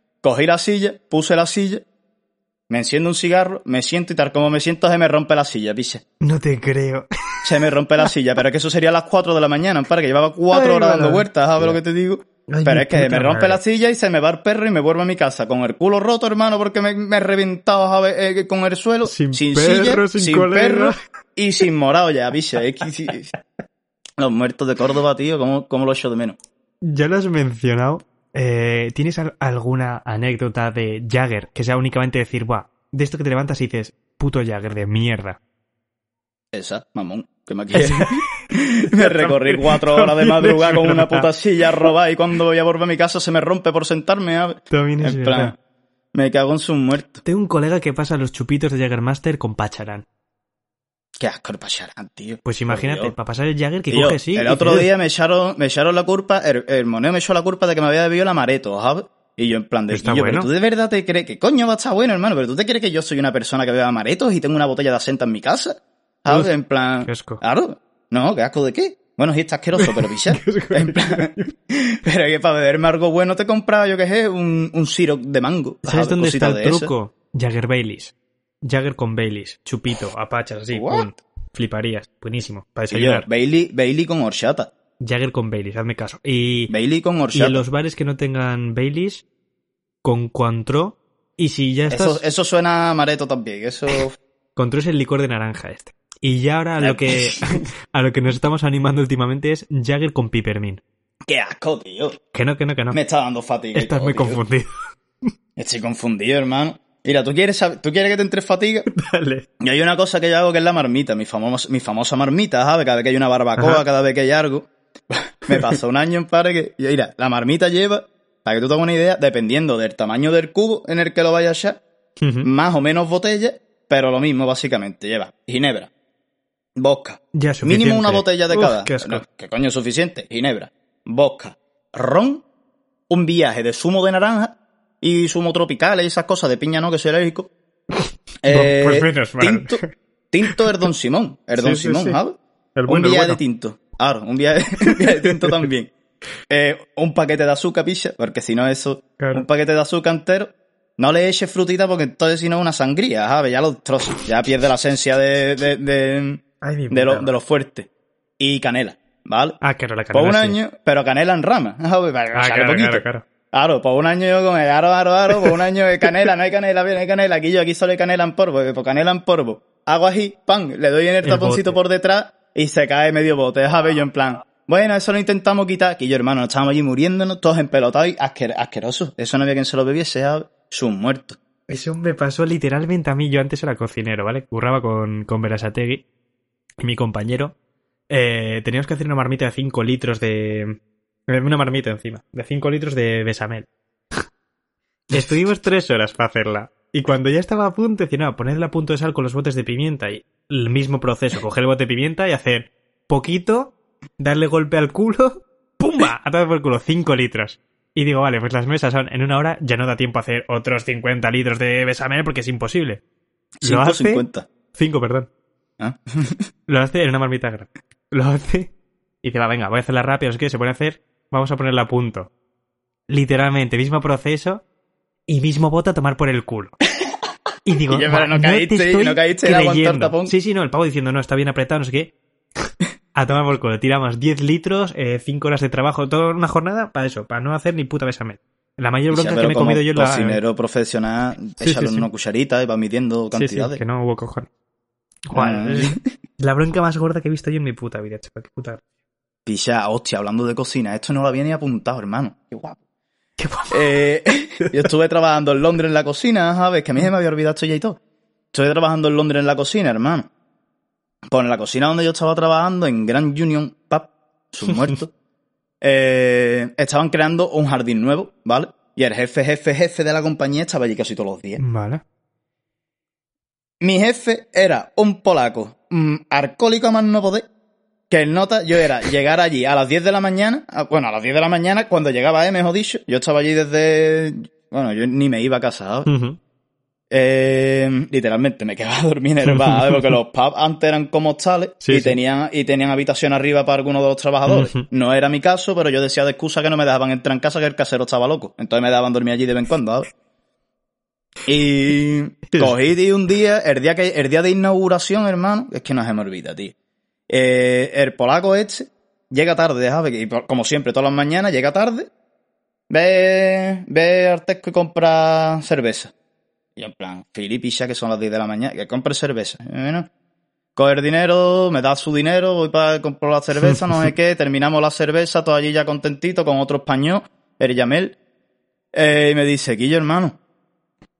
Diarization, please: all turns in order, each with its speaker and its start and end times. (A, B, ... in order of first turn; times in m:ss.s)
0:00.2-0:01.8 A
0:02.7-0:06.0 A
0:06.2-0:07.4 B
0:07.4-0:23.3 A
0:10.5-0:11.8 B
0:12.5-0:13.6 B
0:19.0-0:21.0 B
0:24.2-0:26.4 A
0:26.8-0:35.4 B
0:36.5-0:45.6 A
0:37.7-0:38.2 B
0:38.9-0:41.3 B
0:44.7-0:45.5 B
0:46.1-0:47.2 A
0:47.2-0:50.0 B
0:51.2-0:53.1 A
0:52.4-0:54.9 B
0:53.9-1:16.9 A
0:59.9-1:00.5 B
1:07.0-1:07.4 B
1:09.8-1:11.5 B
1:15.8-1:18.1 B
1:18.6-1:23.3 B
1:20.7-1:21.1 A
1:22.9-1:24.7 A
1:25.0-1:26.7 B
1:26.7-1:27.6 A
1:27.3-1:29.2 B
1:30.0-1:32.2 B
1:31.9-1:34.2 A
1:34.6-1:40.8 B
1:36.8-1:37.7 A
1:41.3-1:42.2 A
1:42.3-1:43.0 B
1:42.9-1:44.4 A
1:43.7-1:45.3 B
1:45.6-1:48.9 A
1:48.9-1:49.4 B
1:49.6-2:01.8 A
1:53.6-1:53.8 B
2:02.2-2:02.5 B
2:02.4-2:05.9 A
2:06.8-2:12.4 A
2:07.3-2:09.2 B
2:13.1-2:17.5 A
2:18.4-2:25.9 A
2:18.5-2:19.9 B
2:21.5-2:22.2 B
2:22.8-2:23.4 B
2:25.0-2:25.6 B
2:26.5-2:37.9 A
2:29.2-2:29.4 B
2:36.6-2:37.3 B
2:38.4-2:39.6 A
2:39.6-2:40.6 B
2:40.1-3:01.4 A
2:42.3-2:43.2 B
2:51.2-2:51.8 B
3:01.7-3:06.0 B
3:06.8-3:07.5 B
3:08.1-3:10.8 B
3:11.3-3:13.7 B
3:15.1-3:33.0 B
3:33.6-3:35.3 B
3:33.6-3:34.4 A
3:35.8-3:36.4 A
3:36.7-3:38.7 B
3:39.2-3:42.3 B
3:43.1-3:44.6 B
3:45.3-3:46.7 B
3:47.6-4:00.4 B
3:47.9-3:50.3 A
3:59.1-4:03.8 A
4:01.6-4:02.1 B
4:03.3-4:04.5 B
4:05.3-4:08.8 B
4:05.3-4:06.0 A
4:09.4-4:12.8 A
4:13.4-4:14.0 B
4:13.7-4:18.0 A
4:18.5-4:20.3 A
4:21.3-4:25.1 A
4:25.8-4:31.6 A
4:31.6-4:32.0 B
4:33.8-4:37.4 A
4:38.1-4:46.1 A
4:46.0-4:46.4 B
4:47.1-5:00.1 A
4:49.4-4:50.1 B
4:51.8-4:52.2 B
4:54.5-4:54.8 B
5:01.4-5:06.7 A
5:02.5-5:02.8 B
5:07.3-5:12.1 A
5:12.9-5:16.1 A
5:16.8-5:20.1 A
5:20.8-5:28.2 A
5:28.9-5:30.4 A